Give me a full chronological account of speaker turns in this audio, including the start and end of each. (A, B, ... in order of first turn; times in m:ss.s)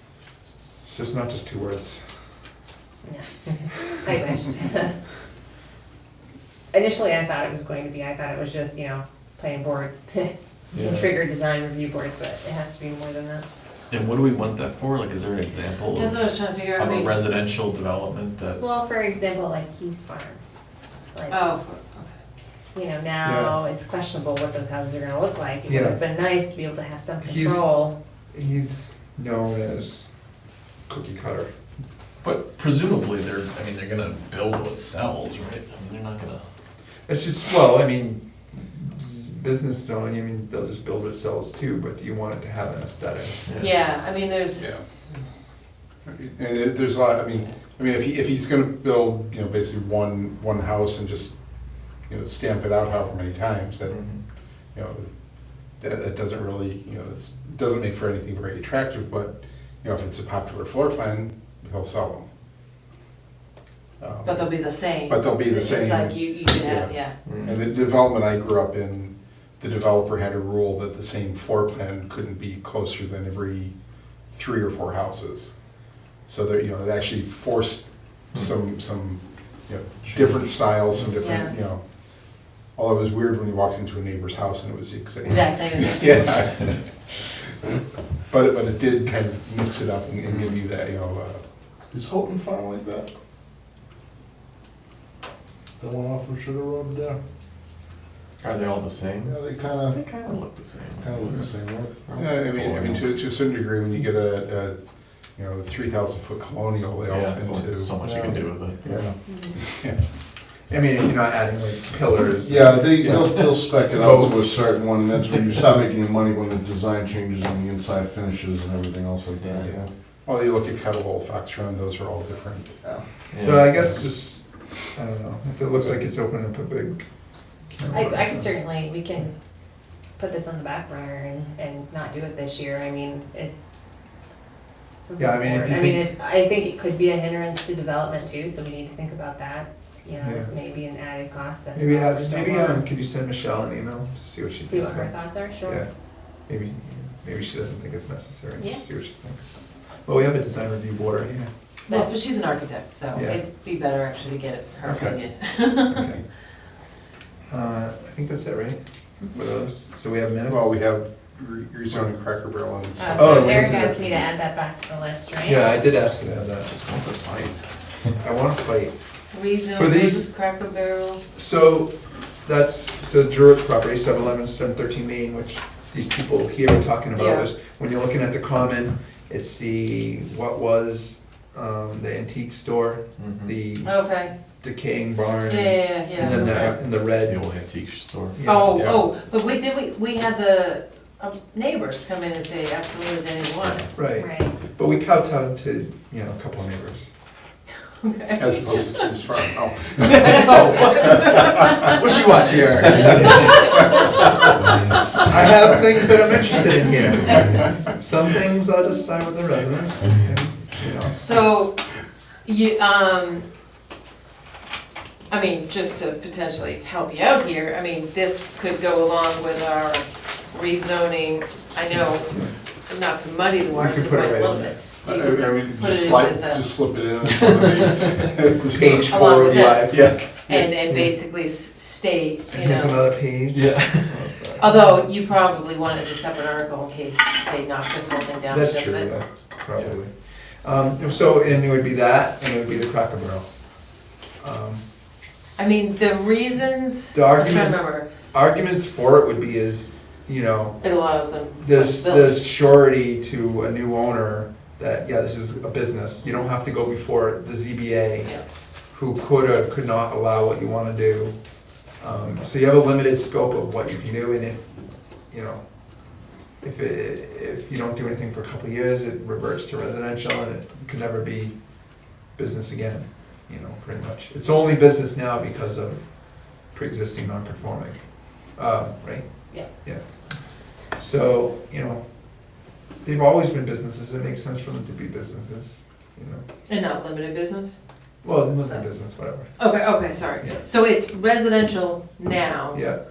0:00.8-0:02.0 A
0:03.0-0:04.9 B
0:06.7-0:13.4 B
0:10.7-0:11.0 A
0:13.9-0:16.2 C
0:15.9-0:17.2 D
0:16.8-0:18.6 C
0:18.6-0:20.4 B
0:21.1-0:21.4 B
0:21.3-0:22.1 D
0:22.7-0:28.0 B
0:23.2-0:23.6 A
0:25.7-0:26.0 A
0:27.2-0:27.6 A
0:28.3-0:30.1 A
0:30.9-0:31.5 A
0:32.2-0:36.4 C
0:37.1-0:43.4 A
0:43.6-0:44.7 D
0:46.0-0:51.3 E
0:52.1-0:54.0 E
0:53.9-0:54.2 C
0:54.7-0:55.1 E
0:55.8-1:02.3 E
1:04.0-1:13.7 E
1:04.2-1:07.1 D
1:07.2-1:07.6 C
1:14.3-1:15.5 E
1:16.2-1:21.8 E
1:21.2-1:21.5 D
1:22.7-1:26.8 E
1:25.2-1:26.3 D
1:28.3-1:31.4 E
1:30.2-1:30.5 C
1:31.9-1:33.1 F
1:35.8-1:37.2 F
1:38.4-1:43.2 C
1:39.2-1:40.1 F
1:41.0-1:42.2 F
1:42.2-1:44.8 E
1:45.3-1:47.9 E
1:47.1-1:48.8 C
1:48.0-1:49.1 F
1:48.8-1:49.1 A
1:50.7-1:54.6 A
1:52.4-1:59.9 F
1:59.6-2:02.8 E
2:03.3-2:07.0 A
2:03.3-2:03.8 C
2:07.7-2:08.5 A
2:07.9-2:09.3 B
2:10.2-2:13.6 B
2:15.1-2:22.8 B
2:15.2-2:16.0 A
2:20.2-2:20.5 A
2:21.7-2:25.9 A
2:24.6-2:25.8 B
2:26.5-2:29.5 A
2:30.0-2:31.5 A
2:31.9-2:32.2 B
2:31.9-2:36.1 D
2:33.1-2:33.4 A
2:35.7-2:36.2 A
2:37.5-2:40.7 A
2:40.5-2:43.8 E
2:43.0-2:45.7 B
2:43.1-2:44.2 A
2:45.4-2:46.7 A
2:46.6-2:47.6 C
2:48.2-2:48.9 A
2:49.3-2:51.2 D
2:49.7-2:50.2 A
2:51.3-3:07.4 A
2:57.2-2:57.4 D
3:03.2-3:03.5 C
3:03.8-3:04.3 D
3:05.5-3:06.8 D
3:07.1-3:08.4 C
3:08.3-3:08.9 A
3:08.4-3:13.9 D
3:08.7-3:09.0 E
3:14.0-3:17.1 A
3:14.1-3:14.5 B
3:18.0-3:19.1 D
3:18.4-3:20.8 E
3:20.1-3:24.1 C
3:20.2-3:21.0 D
3:22.9-3:23.6 A
3:25.2-3:31.2 A
3:31.1-3:31.8 D
3:32.4-3:33.4 D
3:35.3-3:46.6 D
3:43.7-3:44.8 A
3:45.0-3:50.1 E
3:48.6-3:51.1 A
3:49.0-3:53.0 D
3:52.5-3:54.9 A
3:53.5-3:54.3 C
3:54.6-3:59.1 D
3:58.5-4:03.5 A
4:04.4-4:04.8 A
4:05.6-4:08.1 D
4:07.1-4:10.8 A
4:10.8-4:12.4 D
4:11.6-4:18.4 A
4:18.9-4:21.3 A
4:22.0-4:24.7 A
4:25.3-4:25.6 A
4:26.6-4:31.6 A
4:32.3-4:40.0 A
4:40.9-4:42.0 A
4:43.0-4:46.4 A
4:46.7-4:47.8 D
4:48.2-4:49.6 A
4:49.6-4:52.8 D
4:52.7-4:53.0 A